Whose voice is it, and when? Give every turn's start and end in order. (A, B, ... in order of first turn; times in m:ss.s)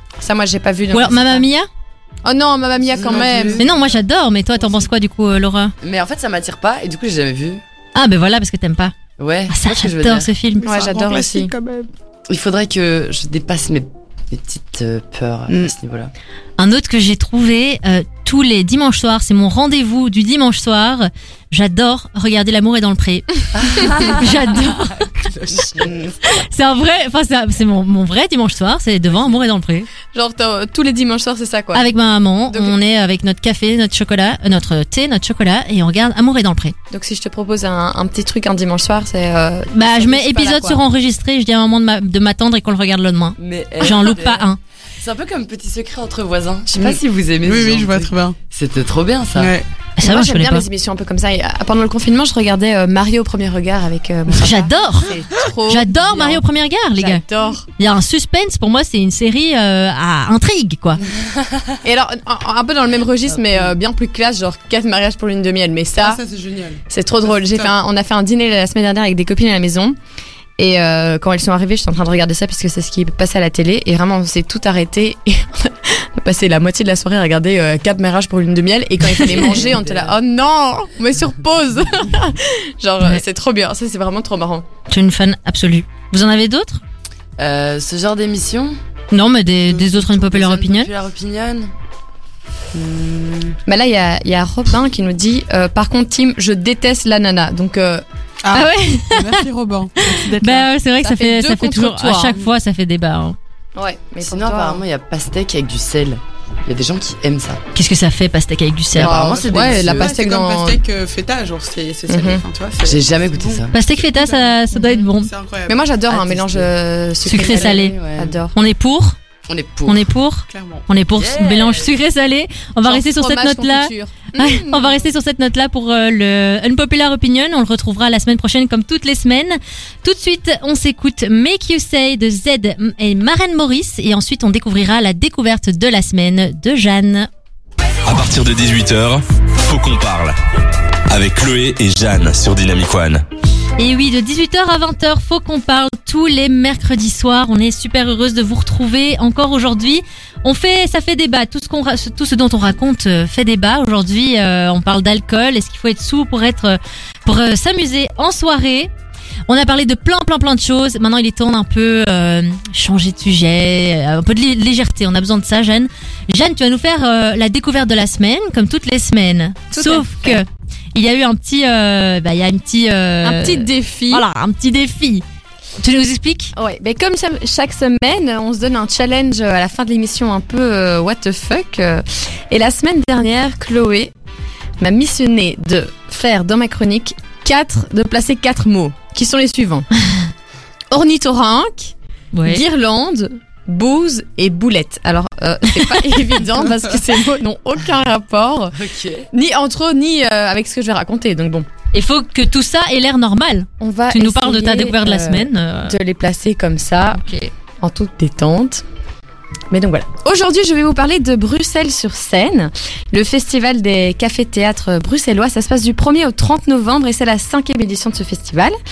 0:00.2-0:01.4 A
0:00.9-0:01.7 B
0:02.2-0:03.6 A
0:02.9-0:04.0 C
0:02.9-0:03.4 D
0:03.6-0:05.7 B
0:05.8-0:07.6 D
0:07.9-0:08.9 B
0:09.2-0:10.3 D
0:09.5-0:10.7 B
0:10.6-0:11.9 C
0:10.6-0:11.5 A
0:12.3-0:16.1 D
0:15.5-0:15.7 C
0:16.6-0:25.1 B
0:23.5-0:24.3 D
0:25.3-0:26.2 C
0:26.2-0:29.9 B
0:30.1-0:31.8 A
0:31.7-0:36.7 B
0:32.5-0:32.7 A
0:36.9-0:40.8 A
0:39.7-0:44.6 B
0:43.4-0:44.5 D
0:45.0-0:49.5 D
0:46.8-0:48.4 C
0:49.3-0:49.6 C
0:50.0-0:50.6 B
0:50.0-0:56.4 A
0:54.4-0:57.2 B
0:56.9-0:57.6 A
0:57.8-1:01.0 B
1:01.8-1:06.2 A
1:03.4-1:03.7 D
1:06.0-1:07.7 C
1:06.9-1:10.0 A
1:10.6-1:24.6 A
1:19.2-1:20.2 D
1:24.9-1:26.8 B
1:27.4-1:28.8 D
1:29.1-1:30.9 B
1:29.7-1:30.0 C
1:30.0-1:31.7 D
1:32.7-1:33.5 C
1:33.6-1:38.0 A
1:38.4-1:40.7 C
1:38.5-1:39.4 B
1:40.0-1:43.4 B
1:41.0-1:42.4 A
1:43.8-1:44.8 A
1:44.2-1:47.6 D
1:47.7-1:49.2 B
1:48.9-1:50.1 D
1:49.0-1:55.8 C
1:49.3-1:50.8 A
1:52.1-1:52.4 A
1:52.8-1:53.7 D
1:53.7-1:55.3 B
1:55.7-1:58.5 A
1:56.1-1:56.7 D
1:57.2-1:57.9 B
1:57.3-1:58.4 D
1:58.5-1:59.2 B
1:59.4-2:00.0 D
1:59.8-2:17.3 B
2:00.5-2:00.8 C
2:01.1-2:01.9 D
2:02.8-2:05.0 A
2:18.0-2:20.4 E
2:21.1-2:23.2 E
2:23.8-2:38.9 B
2:39.5-2:55.2 B
2:49.7-2:50.4 A
2:53.2-2:54.2 A
2:55.8-2:56.5 B
2:56.5-3:04.1 A
3:04.8-3:09.9 A
3:10.9-3:18.7 A
3:12.3-3:12.6 B
3:18.8-3:19.3 D
3:19.3-3:21.7 A
3:21.9-3:26.0 B
3:23.8-3:27.2 A
3:27.2-3:27.5 B
3:27.8-3:28.8 A
3:29.7-3:38.8 A